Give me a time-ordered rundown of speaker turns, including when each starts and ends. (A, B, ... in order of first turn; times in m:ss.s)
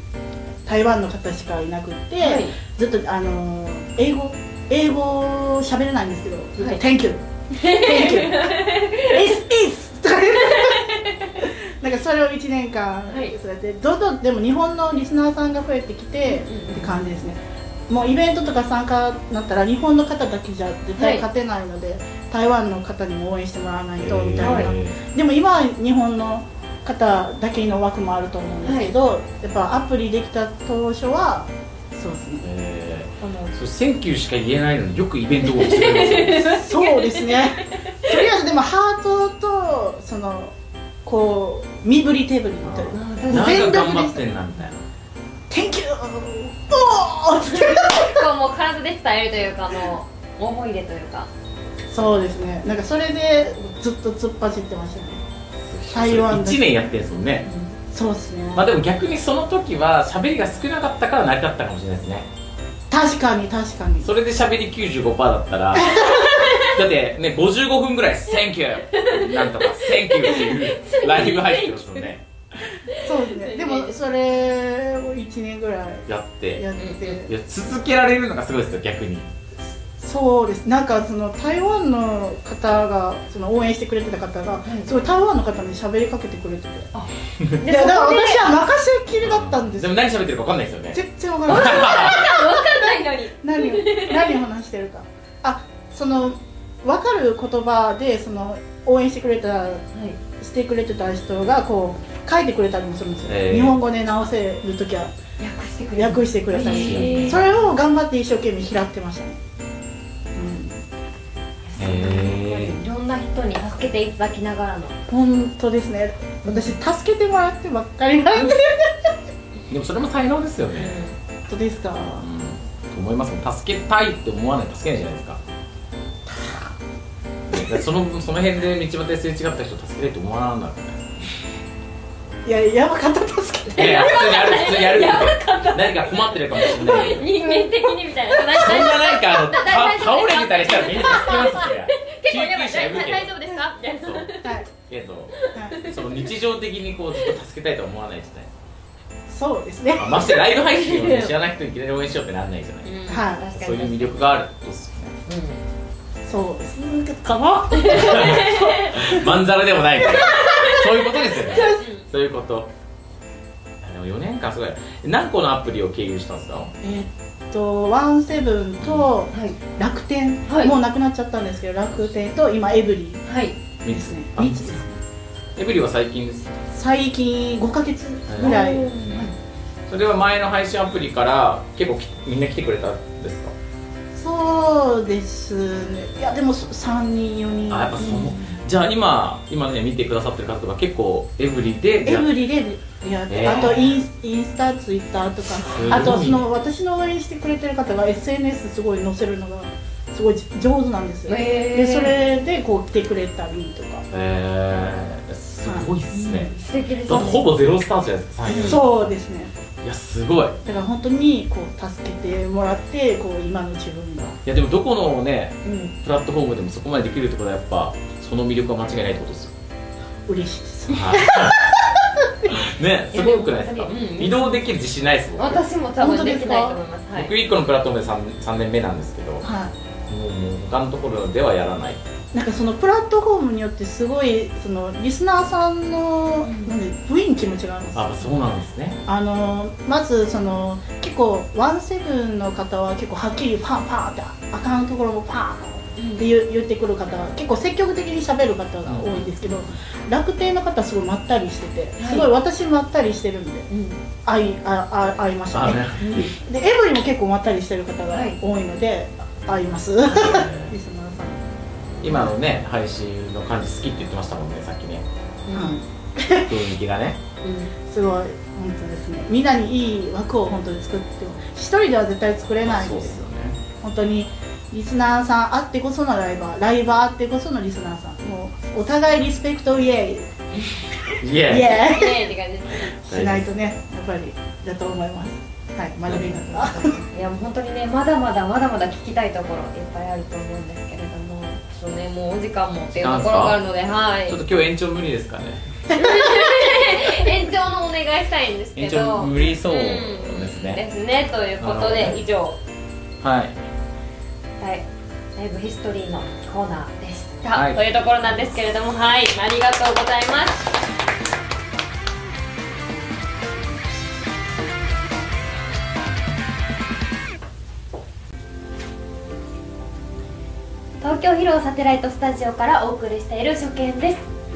0:00.6-0:32.5 A
0:02.2-0:02.6 B
0:07.5-0:09.4 B
0:10.4-0:11.4 B
0:13.1-0:13.4 B
0:16.3-0:17.0 B
0:21.0-0:21.2 B
0:24.0-0:25.0 C
0:24.4-0:24.7 B
0:28.6-0:28.9 B
0:32.4-0:36.4 C
0:33.2-0:33.5 B
0:35.4-0:38.2 B
0:36.4-0:44.2 A
0:42.6-0:44.8 C
0:42.9-0:43.8 B
0:45.5-0:48.2 A
0:47.5-0:51.3 B
0:51.9-0:55.2 A
0:55.7-0:57.5 C
0:55.9-0:56.8 A
0:57.9-0:58.7 A
0:58.6-1:02.3 C
1:02.9-1:04.1 A
1:04.0-1:12.3 C
1:05.7-1:06.3 A
1:06.1-1:06.7 B
1:08.9-1:12.1 B
1:12.9-1:14.0 B
1:13.0-1:17.3 A
1:16.1-1:16.7 C
1:16.8-1:17.2 B
1:17.2-1:19.3 C
1:20.0-1:26.9 A
1:26.9-1:28.5 B
1:27.6-1:29.9 A
1:29.2-1:32.2 C
1:30.9-1:39.8 A
1:31.5-1:34.4 B
1:39.9-1:40.2 B
1:40.4-1:45.1 A
1:43.3-1:43.8 C
1:45.4-1:47.4 B
1:46.0-1:49.4 A
1:46.6-1:47.4 C
1:50.3-1:50.9 A
1:51.7-1:55.0 B
1:51.8-1:52.8 C
1:55.1-1:59.1 A
1:56.4-1:56.8 B
1:59.7-2:01.0 C
2:00.7-2:01.2 B
2:01.5-2:02.3 A
2:02.2-2:05.4 C
2:06.3-2:06.7 A
2:07.5-2:11.1 C
2:12.4-2:13.9 A
2:13.8-2:17.3 C
2:13.8-2:24.5 B
2:18.4-2:23.3 C
2:24.0-2:28.5 C
2:25.4-2:26.0 B
2:25.5-2:25.8 A
2:29.3-2:30.2 A
2:30.0-2:32.9 C
2:30.3-2:31.3 B
2:32.8-2:34.2 B
2:33.1-2:33.4 A
2:33.6-2:35.2 C
2:35.3-2:35.6 B
2:36.2-2:39.3 A
2:37.2-2:42.7 C
2:37.8-2:39.0 B
2:40.1-2:42.0 B
2:41.5-2:41.8 A
2:43.8-2:46.7 C
2:46.8-2:53.2 A
2:48.8-2:49.1 C
2:50.5-2:50.7 B
2:53.2-2:53.6 B
2:53.8-2:54.8 C
2:53.9-2:55.0 A
2:55.6-2:56.6 C
2:56.7-2:58.9 A
2:58.3-2:59.3 C
2:58.4-2:59.4 B
2:59.9-3:03.5 C
3:04.2-3:08.2 A
3:07.7-3:12.3 C
3:08.0-3:08.6 B
3:12.0-3:24.0 A
3:13.3-3:13.8 C
3:13.4-3:13.8 B
3:15.6-3:16.5 C
3:21.3-3:22.2 B
3:24.1-3:28.8 C
3:25.6-3:25.9 A
3:26.1-3:27.4 B
3:28.5-3:29.6 A
3:28.5-3:28.8 B
3:29.8-3:30.6 C
3:30.6-3:34.4 A
3:34.4-3:39.5 C
3:35.6-3:35.9 B
3:40.3-3:42.6 A
3:40.9-3:41.6 C
3:42.5-3:45.6 C
3:43.1-3:44.6 B
3:45.4-3:47.3 B
3:46.0-3:46.8 A
3:47.2-3:49.5 C
3:49.4-3:49.7 A
3:50.1-3:52.0 C
3:52.3-3:58.4 A
3:56.4-3:56.7 B
3:58.0-3:59.0 C
3:59.1-4:13.7 A
4:06.0-4:06.3 B
4:08.9-4:09.3 C
4:12.0-4:12.3 B
4:13.7-4:14.0 B
4:14.2-4:21.4 A
4:15.5-4:16.3 C
4:16.0-4:16.3 B
4:18.1-4:18.4 B
4:20.1-4:20.7 C
4:22.0-4:25.0 C
4:25.5-4:25.8 B
4:25.5-4:26.6 A
4:26.4-4:27.2 C
4:27.4-4:27.7 B
4:27.9-4:33.2 A
4:32.6-4:33.6 C
4:33.8-4:40.3 A
4:41.1-4:42.3 A
4:41.2-4:41.8 C
4:41.7-4:43.0 B
4:43.0-4:43.5 C
4:43.1-4:47.0 A
4:46.5-4:54.4 B
4:53.0-4:53.6 C
4:54.3-4:55.6 C
4:55.9-5:02.6 B
4:58.8-5:00.8 C
5:01.6-5:02.2 C
5:03.2-5:03.6 C
5:04.6-5:10.7 B
5:07.5-5:07.8 C
5:21.0-5:24.2 B